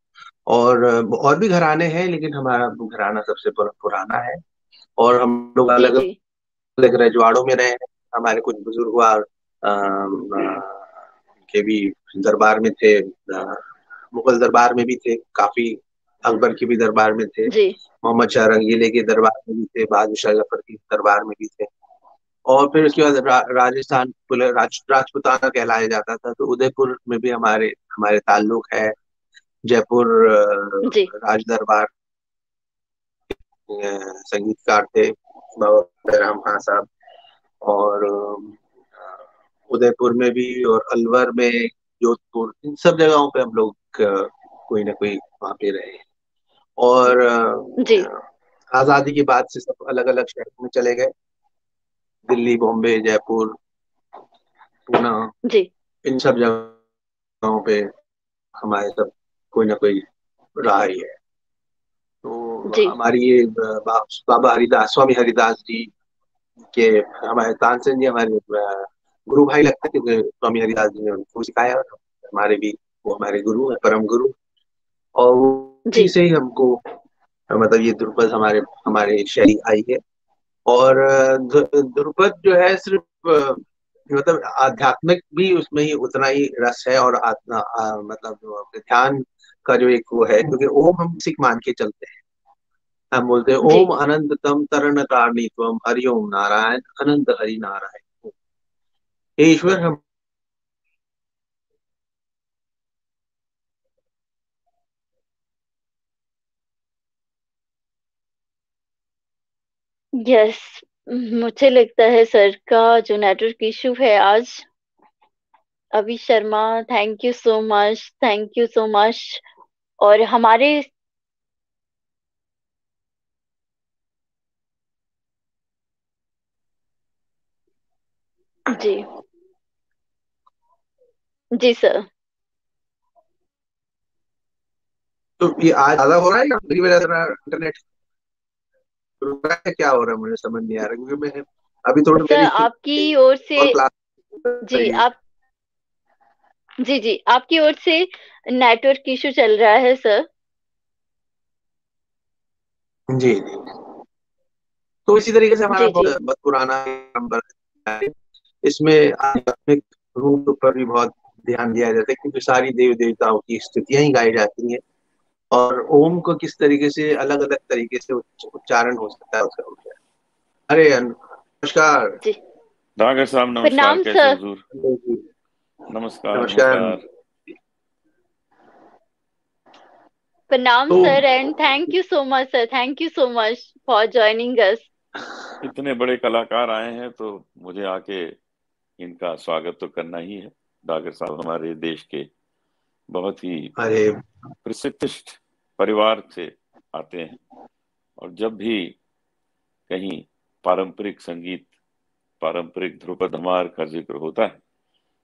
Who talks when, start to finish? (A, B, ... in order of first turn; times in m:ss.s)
0:00.5-0:04.4 A
0:05.0-0:06.1 A
0:05.8-0:06.1 B
0:06.8-0:10.9 A
0:11.4-0:21.7 A
0:17.5-0:17.8 B
0:22.5-0:29.0 A
0:29.6-0:31.9 A
0:30.8-0:31.1 B
0:33.3-0:36.9 A
0:37.6-0:46.0 A
0:46.8-0:48.2 A
0:47.8-0:48.1 B
0:48.7-0:51.1 A
0:52.3-0:53.6 A
0:54.9-0:55.3 A
0:56.0-0:56.8 A
0:57.4-0:57.9 A
0:58.6-1:01.2 A
1:02.2-1:05.9 A
1:02.7-1:03.0 B
1:06.6-1:14.3 A
1:15.2-1:16.8 A
1:17.5-1:20.0 A
1:20.7-1:32.2 A
1:33.1-1:38.3 A
1:39.4-1:40.0 A
1:50.2-1:54.6 B
1:55.9-1:59.4 B
2:00.0-2:00.9 B
2:08.7-2:09.0 B
2:11.6-2:12.1 B
2:15.4-2:17.9 A
2:19.2-2:23.1 A
2:22.2-2:23.8 B
2:23.6-2:25.0 A
2:24.7-2:25.2 B
2:26.8-2:30.2 B
2:33.1-2:33.8 A
2:35.1-2:44.8 A
2:35.7-2:36.1 B
2:45.5-2:50.0 A
2:50.7-2:52.2 A
2:53.0-2:54.6 C
2:53.6-2:54.4 B
2:54.7-2:55.2 A
2:55.9-2:57.0 C
2:56.3-2:57.0 A
3:00.5-3:04.9 B
3:00.9-3:01.2 A
3:05.6-3:08.4 C
3:09.0-3:12.3 C
3:13.1-3:13.8 C
3:13.8-3:14.2 A
3:14.6-3:17.4 C
3:18.2-3:19.0 C
3:19.9-3:21.7 C
3:22.4-3:24.6 C